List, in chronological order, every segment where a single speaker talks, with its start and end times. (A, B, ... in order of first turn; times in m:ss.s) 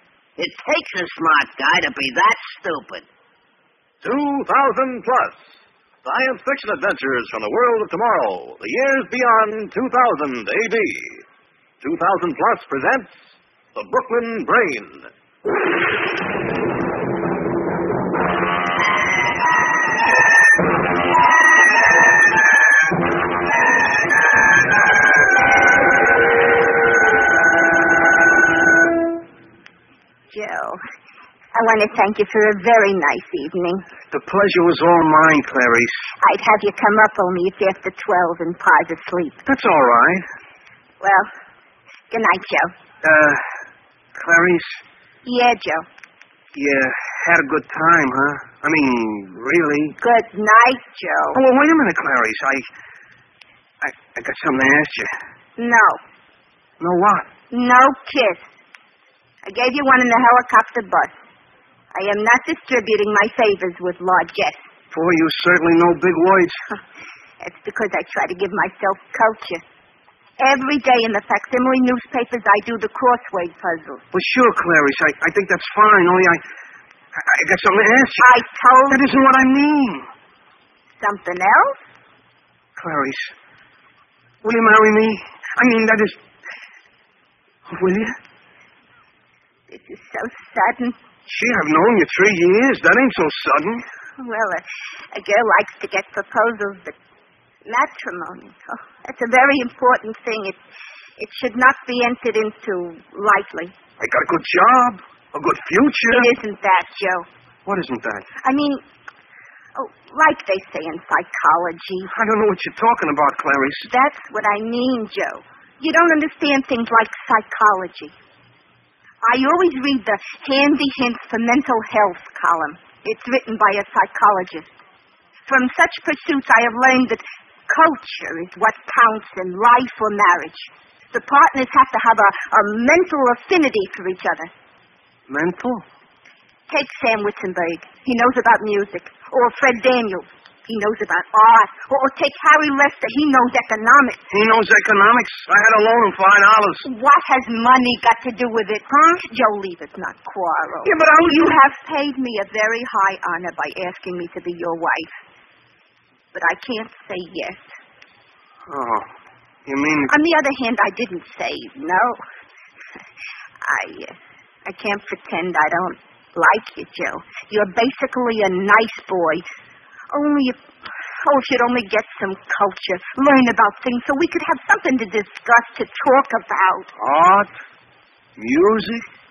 0:00.4-0:03.1 A
0:04.0-0:11.2 B
0:11.8-0:13.2 B
0:13.7-0:15.1 B
0:30.3-0:30.8 C
0:31.5-0:33.8 C
0:34.1-0:36.0 D
0:36.2-0:39.4 C
0:39.4-0:40.2 D
0:41.0-0:41.3 C
0:42.1-0:42.7 C
0:43.0-0:43.4 D
0:44.1-0:44.8 D
0:45.2-0:45.9 C
0:46.5-0:50.0 D
0:50.0-0:51.4 C
0:51.3-0:52.7 D
0:53.8-0:55.1 D
0:55.6-0:56.0 C
0:56.8-0:57.3 D
0:57.5-0:58.5 C
0:59.4-1:01.2 C
1:01.9-1:04.6 C
1:04.9-1:06.6 D
1:07.4-1:09.6 C
1:10.4-1:14.0 C
1:14.1-1:16.4 D
1:17.2-1:18.2 D
1:18.2-1:19.0 C
1:18.9-1:20.1 D
1:21.0-1:21.8 C
1:22.8-1:23.3 D
1:24.4-1:26.2 D
1:27.7-1:28.2 D
1:29.7-1:31.0 C
1:31.3-1:33.8 D
1:34.2-1:37.0 C
1:37.6-1:40.6 C
1:41.2-1:43.7 C
1:44.0-1:46.3 D
1:46.1-1:47.3 C
1:47.6-1:48.3 D
1:48.4-1:48.8 C
1:49.8-1:52.1 C
1:52.1-1:53.9 D
1:53.9-1:58.1 C
1:59.2-2:04.7 C
2:05.5-2:14.5 C
2:15.3-2:15.8 D
2:16.7-2:24.2 C
2:24.3-2:26.8 D
2:26.8-2:35.2 C
2:30.8-2:31.1 D
2:36.3-2:37.7 C
2:38.7-2:39.1 D
2:39.6-2:40.1 D
2:40.1-2:42.2 C
2:43.6-2:49.4 C
2:50.1-2:50.6 C
2:51.2-2:56.9 C
2:57.0-2:57.5 D
2:58.4-2:59.0 D